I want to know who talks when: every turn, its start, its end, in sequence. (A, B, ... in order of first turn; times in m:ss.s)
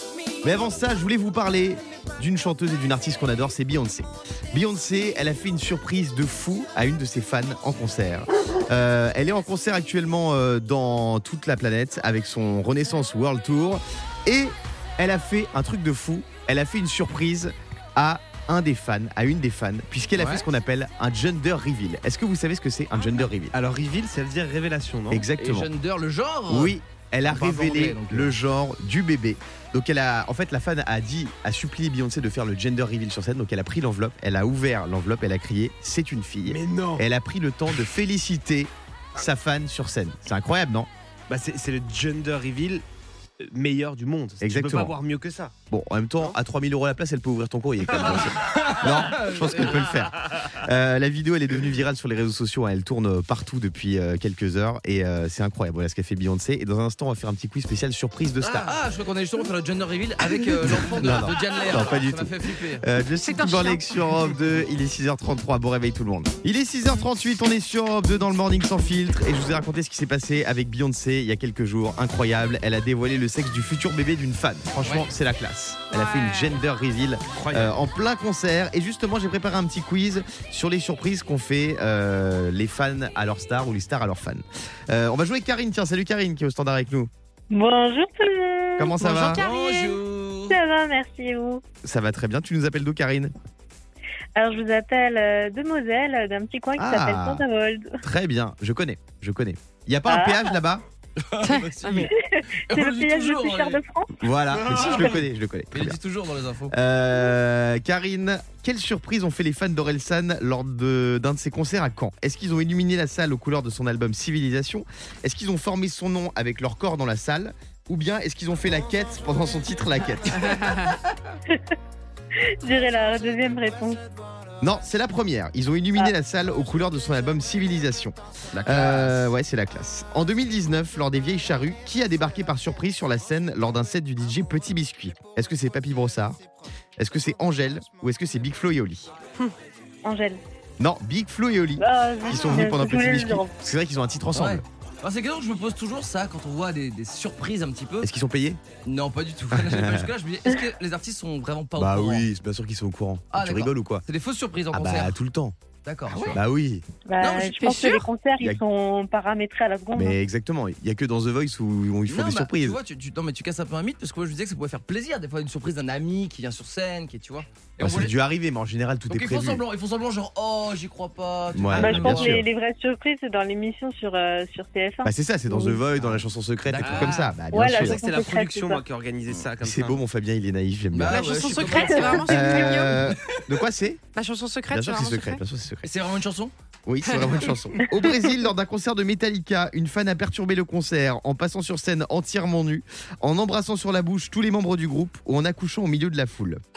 0:00.4-0:23.5 A
0:20.1-0:20.4 B
0:23.5-0:25.3 C
0:25.1-0:25.7 A
0:25.4-0:28.3 B
0:26.5-0:40.9 A
0:36.4-0:37.0 C
0:41.3-0:42.8 C
0:43.4-0:45.5 C
0:44.4-0:45.0 A
0:45.7-0:58.8 A
0:48.0-0:50.1 B
0:58.4-1:02.8 B
1:00.4-1:27.1 A
1:03.2-1:03.9 D
1:14.8-1:15.1 B
1:15.9-1:16.6 D
1:17.3-1:17.8 C
1:27.5-1:29.0 E
1:28.8-1:29.4 A
1:29.0-1:29.4 D
1:29.3-1:30.6 B
1:30.5-1:31.6 E
1:31.8-1:33.3 A
1:34.4-1:38.0 E
1:36.8-1:37.4 A
1:38.0-1:40.8 A
1:40.1-1:40.6 E
1:41.2-1:42.1 B
1:41.4-1:42.1 D
1:42.3-1:44.2 E
1:42.7-1:43.8 B
1:44.2-1:46.0 A
1:44.6-1:45.2 B
1:45.7-1:46.8 B
1:46.7-2:00.8 A
2:02.6-2:04.0 E
2:04.6-2:16.4 A
2:08.5-2:09.2 B
2:17.0-2:19.1 A
2:20.0-2:20.4 E
2:20.8-2:24.6 A
2:21.8-2:23.5 E
2:24.3-2:28.1 B
2:28.0-2:28.6 A
2:28.8-2:32.3 B
2:29.5-2:30.1 A
2:31.8-2:34.0 A
2:33.3-2:35.2 B
2:34.7-2:35.5 A
2:35.8-2:36.4 B
2:36.2-2:36.9 A
2:37.1-2:40.2 E
2:37.2-2:37.5 B
2:37.3-2:38.1 D
2:39.9-2:42.8 A
2:42.1-2:48.1 B
2:47.8-2:49.6 A
2:49.1-2:52.4 B
2:51.5-2:52.5 A
2:51.8-2:55.8 E
2:55.0-2:58.0 A
2:56.7-2:57.3 B
2:56.8-3:00.0 C
2:57.5-2:58.8 E
2:59.6-3:01.6 A
3:00.9-3:02.3 B
3:01.1-3:03.0 D
3:01.7-3:02.8 E
3:02.2-3:04.0 A
3:04.1-3:05.4 D
3:04.7-3:05.9 A
3:05.8-3:06.5 B
3:06.9-3:16.6 A
3:07.1-3:07.5 D